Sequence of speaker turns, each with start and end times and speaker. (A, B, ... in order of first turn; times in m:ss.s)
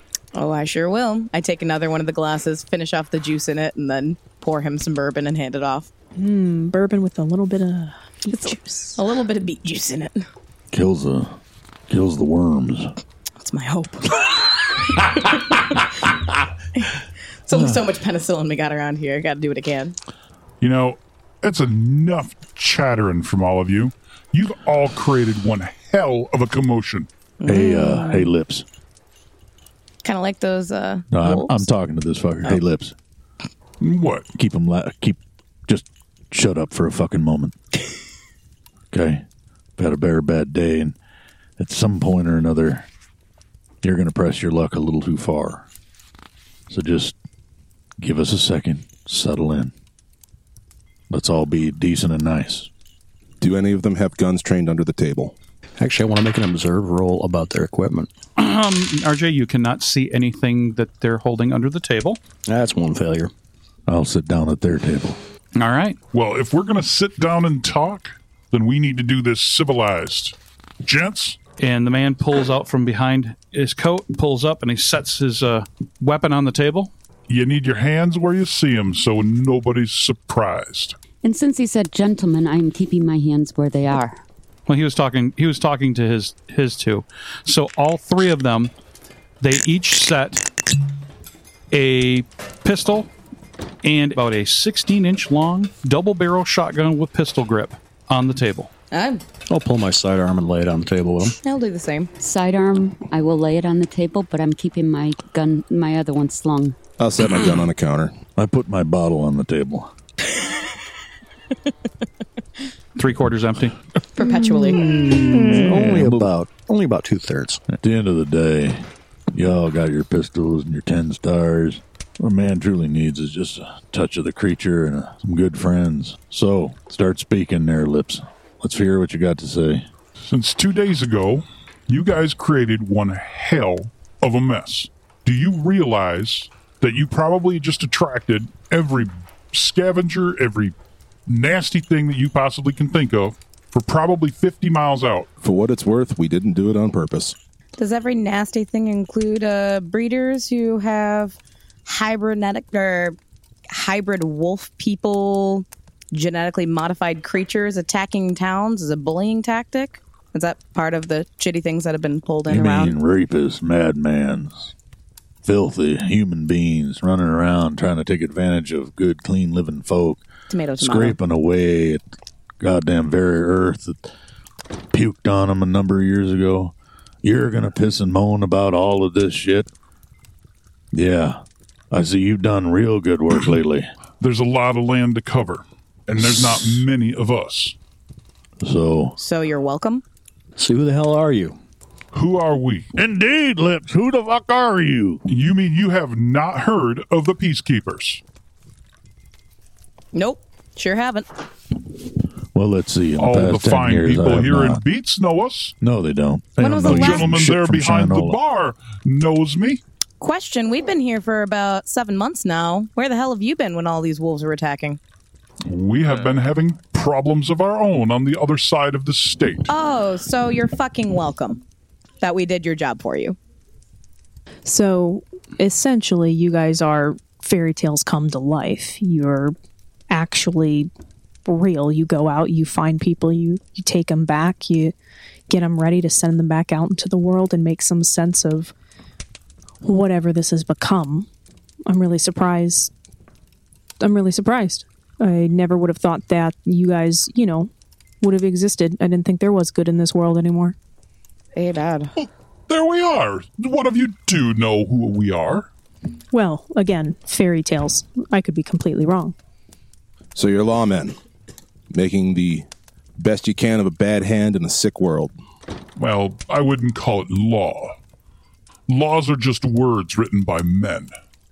0:00.4-0:05.9 A
0:06.2-0:09.0 B
0:08.3-0:10.3 A
0:10.7-0:11.3 C
0:11.9-0:12.9 C
0:13.4-0:16.1 A
0:16.8-0:20.0 A
0:20.6-0:27.1 D
0:27.4-0:28.3 A
0:27.5-0:28.6 C
0:30.0-0:31.7 A
0:31.1-0:33.0 C
0:33.8-0:34.3 D
0:34.4-0:37.6 C
0:38.9-0:39.2 C
0:39.8-0:41.0 C
0:41.6-0:42.9 C
0:43.8-0:45.6 C
0:46.7-0:47.1 C
0:48.0-0:49.7 C
0:51.1-0:52.7 C
0:53.4-0:55.4 E
0:55.8-0:58.1 F
0:58.4-1:02.2 G
1:02.5-1:03.3 F
1:03.9-1:05.2 C
1:05.6-1:06.0 G
1:06.1-1:11.4 D
1:11.6-1:16.9 G
1:17.3-1:21.0 D
1:21.2-1:24.2 H
1:24.7-1:28.7 G
1:29.4-1:30.4 G
1:31.7-1:33.1 G
1:33.8-1:38.7 G
1:38.9-1:39.2 A
1:39.5-1:41.4 F
1:41.4-1:42.1 A
1:42.2-1:46.8 H
1:47.0-1:48.1 E
1:48.4-1:49.9 C
1:53.0-1:53.8 G
1:54.1-1:55.0 A
1:55.0-1:56.3 C
1:55.1-1:57.6 F
1:57.7-2:09.9 C
2:10.3-2:20.7 D
2:21.3-2:25.3 D
2:25.4-2:27.4 E
2:27.8-2:33.2 A
2:33.7-2:43.0 A
2:42.5-2:44.7 C
2:45.4-2:50.2 C
2:50.5-2:51.2 A
2:50.8-2:52.0 C
2:52.6-2:54.0 C
2:54.9-2:59.7 C
3:00.9-3:03.9 C
3:04.2-3:07.8 D
3:08.6-3:09.2 C
3:09.2-3:10.0 A
3:10.6-3:11.6 F
3:12.1-3:12.9 D
3:13.0-3:15.2 C
3:15.3-3:18.2 D
3:20.1-3:21.3 A
3:22.5-3:24.8 C
3:23.2-3:25.7 D
3:25.8-3:28.4 C
3:26.6-3:27.5 A
3:26.8-3:29.8 D
3:30.2-3:35.0 A
3:35.7-3:39.7 D
3:39.7-3:41.6 A
3:42.2-3:43.4 A
3:44.6-3:49.6 B
3:50.1-3:50.9 B
3:51.5-3:55.0 B
3:55.5-3:58.7 B
3:59.8-4:01.3 B
4:01.9-4:02.9 B
4:04.0-4:07.7 B
4:08.2-4:10.8 B
4:11.6-4:12.1 A
4:12.7-4:15.7 D
4:16.3-4:19.4 B
4:20.4-4:21.2 E
4:21.9-4:22.7 E
4:23.2-4:25.3 E
4:26.0-4:28.0 D
4:28.9-4:31.1 D